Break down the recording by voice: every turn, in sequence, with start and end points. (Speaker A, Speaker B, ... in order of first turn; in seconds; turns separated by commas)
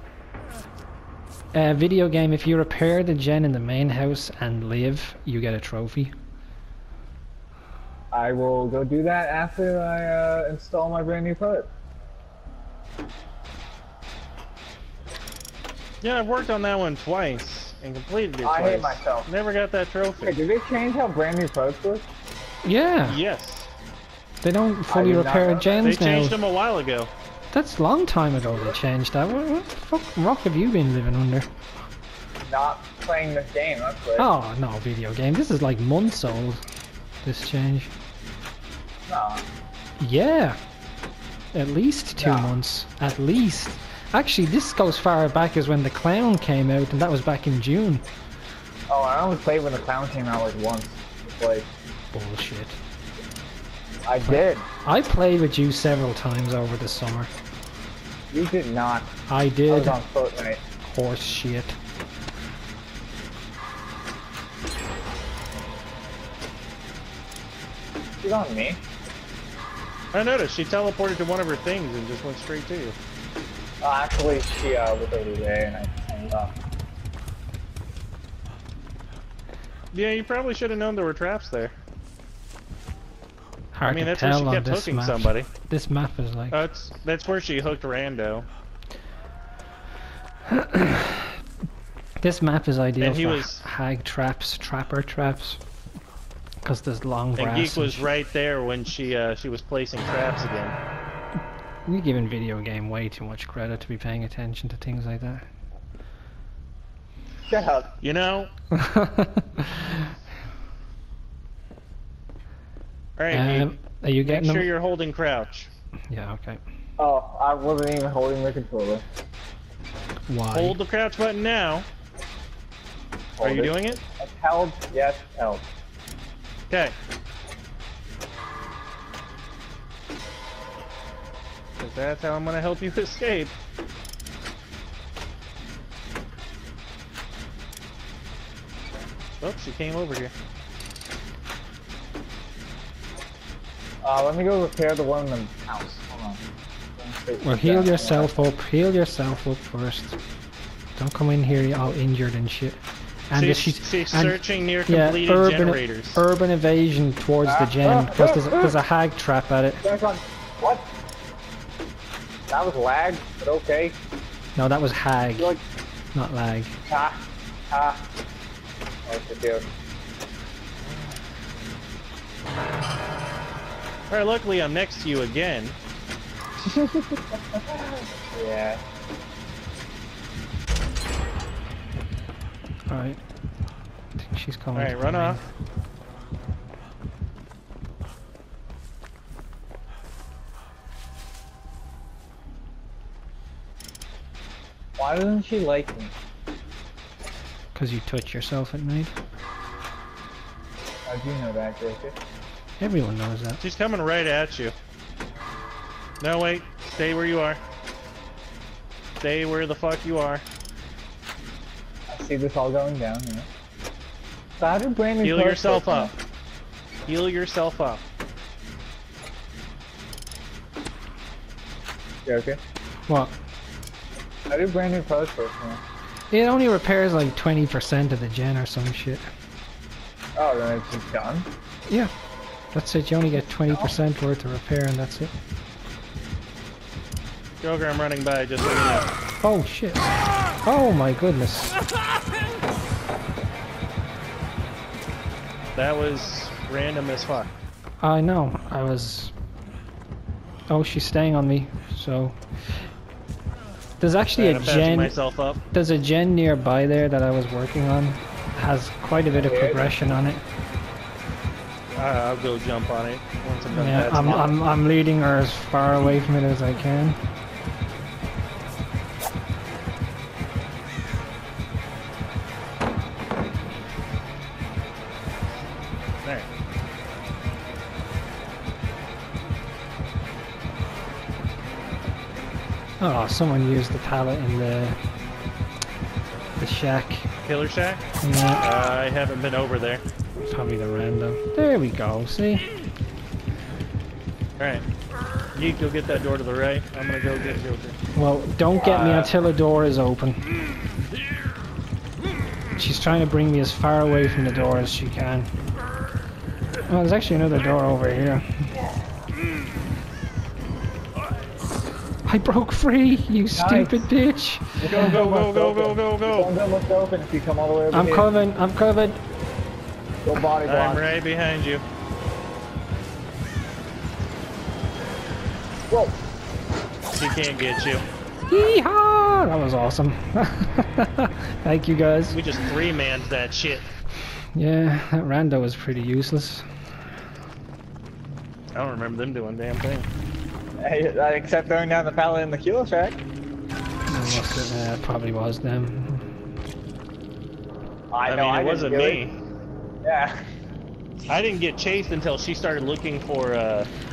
Speaker A: 1.5-6.1, Speaker B: 8.1-11.7, Speaker C: 16.0-20.4, Speaker B: 18.4-19.3, Speaker B: 20.2-22.1, Speaker A: 22.6-23.2, Speaker C: 23.1-23.7, Speaker A: 24.4-26.4, Speaker B: 24.9-26.0, Speaker C: 25.8-27.1, Speaker A: 27.5-31.5, Speaker B: 32.4-34.3, Speaker A: 34.2-36.6, Speaker A: 37.2-37.9, Speaker B: 39.1-39.4, Speaker A: 40.0-40.6, Speaker A: 41.5-48.0, Speaker B: 42.2-42.5, Speaker B: 48.9-51.7, Speaker A: 52.1-52.8, Speaker B: 54.1-54.7, Speaker A: 54.2-57.3, Speaker B: 58.3-59.1, Speaker A: 59.3-60.0, Speaker B: 59.7-60.6, Speaker A: 60.8-61.8, Speaker B: 68.2-68.8, Speaker C: 70.1-73.0, Speaker B: 73.8-76.5, Speaker C: 79.9-81.7, Speaker A: 83.7-86.6, Speaker C: 83.9-85.5, Speaker C: 86.5-88.5, Speaker A: 90.5-91.3, Speaker A: 92.2-95.6, Speaker C: 93.0-93.6, Speaker A: 96.6-98.1, Speaker C: 97.4-100.8, Speaker A: 101.9-105.5, Speaker B: 107.5-107.9, Speaker C: 108.0-108.5, Speaker A: 108.7-110.0, Speaker C: 113.2-113.7, Speaker A: 113.3-114.7, Speaker C: 114.2-115.7, Speaker A: 116.1-116.6, Speaker B: 117.0-119.0, Speaker A: 120.3-120.8, Speaker C: 120.5-121.9, Speaker B: 123.4-125.7, Speaker C: 123.4-124.0, Speaker C: 126.7-127.0, Speaker C: 131.8-133.6, Speaker C: 139.4-140.3, Speaker B: 144.0-146.4, Speaker B: 147.0-148.5, Speaker A: 147.4-150.2, Speaker A: 151.0-159.8, Speaker C: 153.3-156.2, Speaker B: 157.4-158.8, Speaker B: 159.8-160.9, Speaker B: 162.5-164.0, Speaker A: 164.6-165.6, Speaker A: 166.1-166.8, Speaker B: 166.9-168.0, Speaker B: 169.1-169.7, Speaker C: 174.1-175.8, Speaker B: 176.6-178.8, Speaker A: 182.9-183.2, Speaker A: 184.2-185.5, Speaker C: 184.8-185.4, Speaker B: 195.0-196.1, Speaker A: 197.8-199.2, Speaker B: 201.1-202.2, Speaker A: 202.8-203.6, Speaker C: 203.6-204.7, Speaker C: 206.2-207.6, Speaker C: 209.2-210.4, Speaker B: 212.1-213.5, Speaker B: 214.6-216.1, Speaker C: 215.2-216.1, Speaker C: 217.1-218.0, Speaker B: 222.2-222.6, Speaker A: 223.1-223.4, Speaker B: 224.5-225.8, Speaker A: 226.3-229.3, Speaker B: 230.4-231.5, Speaker A: 232.7-235.3, Speaker B: 233.6-234.0, Speaker C: 237.6-239.1, Speaker A: 239.4-241.7, Speaker C: 245.8-247.5, Speaker A: 248.0-249.3, Speaker A: 250.7-252.4, Speaker A: 254.0-255.2, Speaker C: 254.4-255.6, Speaker A: 255.7-260.4, Speaker B: 259.3-260.2, Speaker C: 262.0-264.6, Speaker A: 263.7-267.2, Speaker A: 283.0-285.0, Speaker A: 286.6-287.3, Speaker C: 287.4-288.1, Speaker A: 288.2-288.6, Speaker C: 288.6-290.0, Speaker A: 290.4-292.7, Speaker C: 294.6-294.8, Speaker C: 295.5-298.0, Speaker A: 298.1-300.5, Speaker C: 298.8-299.3, Speaker A: 302.7-305.5, Speaker A: 306.9-308.4, Speaker A: 312.2-315.1, Speaker B: 313.5-314.1, Speaker B: 314.8-318.3, Speaker C: 314.9-316.5, Speaker A: 317.9-319.2, Speaker B: 320.2-321.2, Speaker C: 320.6-321.8, Speaker B: 325.9-326.2, Speaker C: 327.1-328.0, Speaker A: 328.5-332.4, Speaker C: 332.3-333.9, Speaker A: 334.5-336.7, Speaker C: 338.7-340.1, Speaker B: 340.8-343.2, Speaker A: 344.1-346.3, Speaker B: 348.1-349.2, Speaker C: 348.3-349.4, Speaker B: 350.0-350.4, Speaker C: 351.3-353.9